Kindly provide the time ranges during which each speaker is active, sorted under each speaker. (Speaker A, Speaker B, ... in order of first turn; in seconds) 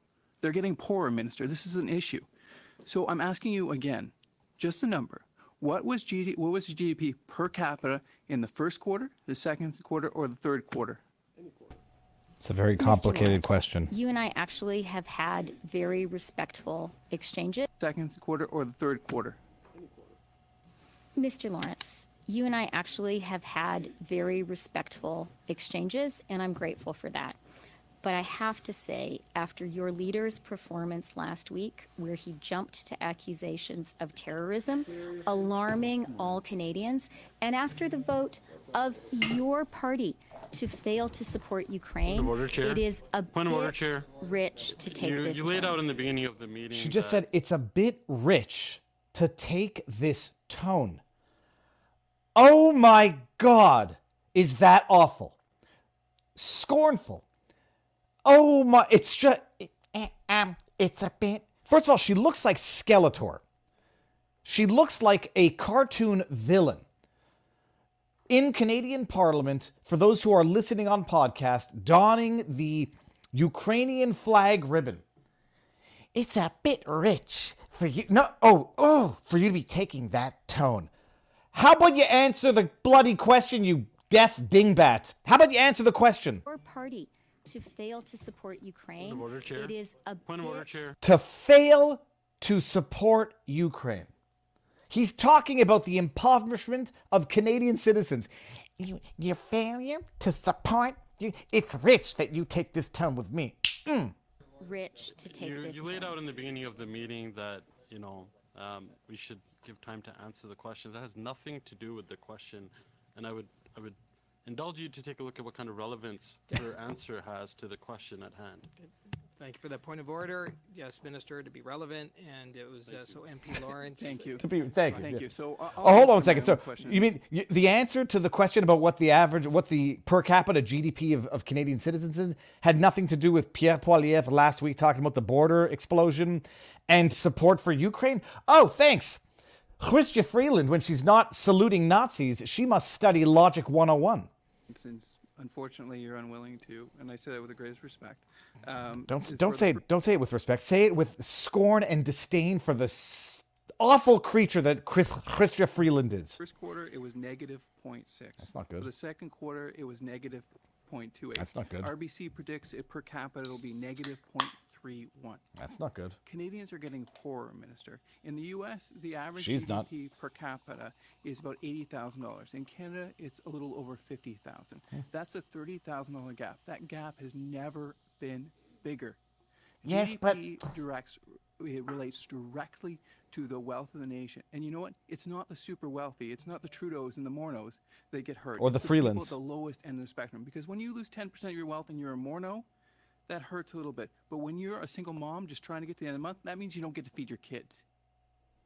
Speaker A: 0.4-2.3, 2.9-11.0, 17.8-19.4, 124.0-127.1, 144.7-149.8, 156.4-165.4, 166.2-179.2, 179.8-192.7, 193.3-197.8
Speaker B: 12.4-13.9, 46.7-51.0, 52.4-55.4, 56.4-57.2, 58.2-63.4, 64.5-66.8, 68.3-75.0, 76.1-80.9, 81.5-86.4, 91.0-94.1, 94.9-104.1, 124.4-125.3, 125.8-139.2, 139.8-144.3, 149.1-156.4, 158.4-158.9, 161.4-161.9, 165.6-166.2, 169.4-169.9, 179.8-180.5, 188.6-189.4
Speaker C: 12.8-17.7, 21.1-27.4, 28.0-45.8, 86.5-90.9, 104.6-106.2
Speaker D: 42.1-44.1, 44.9-47.3, 89.0-91.0, 105.4-118.7, 122.9-123.2
Speaker E: 118.8-124.4